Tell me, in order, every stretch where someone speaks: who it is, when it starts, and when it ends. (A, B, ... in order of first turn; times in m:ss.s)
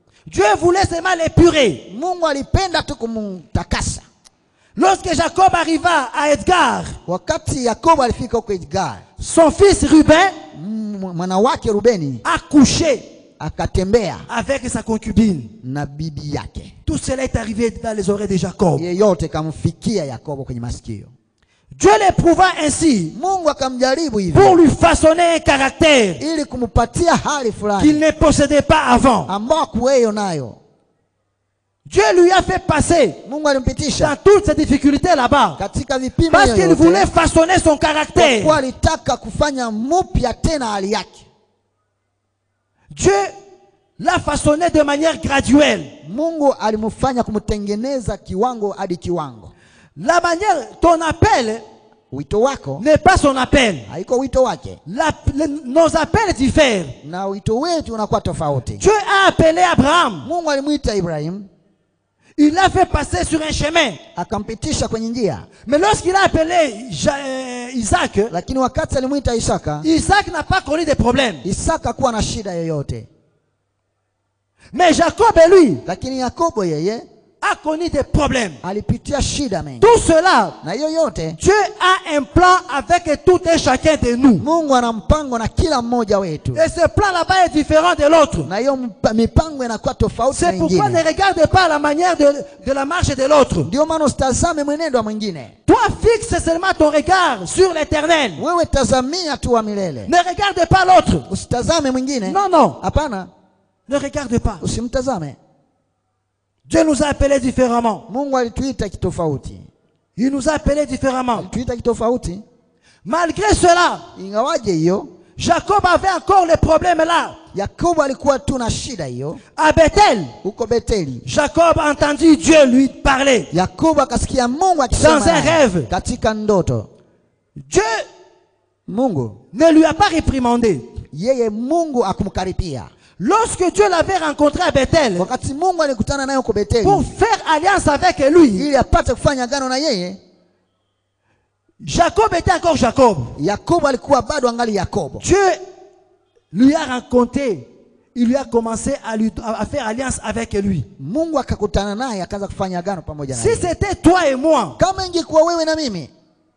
0:00.3-0:01.9 A
0:01.9-0:04.0 B
0:04.8-0:07.0 A
0:07.1-0:09.0 B
0:09.2-0:10.4 A
0:10.5-0:12.2 B
0:12.2-0:13.1 A
0:13.4-0:14.3 B
0:14.3-0:15.5 A
0:15.6-0:16.7 B
0:16.9-0:18.9 A
0:18.8-0:21.1 B
0:21.7-0:23.2 A
0:23.1-0:24.6 B
0:24.3-0:26.2 A
0:26.2-0:28.0 B
0:27.8-0:29.3 A
0:29.3-0:30.6 B
0:31.9-0:33.2 A
0:33.2-0:34.2 B
0:34.0-0:35.6 A
0:35.6-0:37.1 B
0:36.3-0:38.6 A
0:38.2-0:41.3 B
0:42.9-0:43.3 A
0:44.0-0:45.9 A
0:46.0-0:49.5 B
0:50.0-0:51.6 A
0:52.1-0:52.8 B
0:52.8-0:53.9 A
0:53.9-0:54.8 B
0:54.9-0:57.0 A
0:57.0-0:58.8 B
0:58.8-1:00.3 A
1:00.2-1:01.5 B
1:02.4-1:04.0 A
1:04.2-1:05.5 B
1:05.7-1:08.3 A
1:08.3-1:09.9 B
1:09.8-1:11.4 A
1:11.4-1:13.1 B
1:14.7-1:15.8 A
1:15.8-1:17.1 B
1:17.4-1:18.6 A
1:18.6-1:19.9 B
1:19.8-1:20.6 A
1:20.6-1:21.4 B
1:21.4-1:24.4 A
1:24.4-1:26.7 B
1:26.5-1:28.5 A
1:28.4-1:31.0 B
1:30.3-1:33.7 A
1:33.6-1:35.5 B
1:35.7-1:38.4 A
1:38.4-1:40.1 B
1:40.1-1:41.3 A
1:41.3-1:43.3 B
1:42.2-1:42.8 A
1:43.9-1:44.6 A
1:44.6-1:45.4 B
1:46.7-1:48.0 A
1:48.1-1:49.7 B
1:50.2-1:51.5 A
1:51.4-1:52.4 B
1:53.0-1:54.1 A
1:54.2-1:55.1 B
1:55.4-1:57.4 A
1:57.5-1:59.4 B
1:59.6-2:00.3 A
2:00.4-2:01.3 B
2:01.3-2:03.5 A
2:03.5-2:06.9 B
2:05.0-2:05.9 A
2:07.6-2:08.1 A
2:08.9-2:09.4 B
2:09.5-2:10.9 A
2:11.1-2:12.9 B
2:13.2-2:15.3 A
2:15.2-2:17.1 B
2:16.8-2:18.7 A
2:18.6-2:20.2 B
2:21.8-2:23.4 A
2:23.4-2:25.2 B
2:25.2-2:25.6 A
2:26.5-2:30.9 A
2:31.0-2:33.7 B
2:33.3-2:34.8 A
2:34.8-2:36.1 B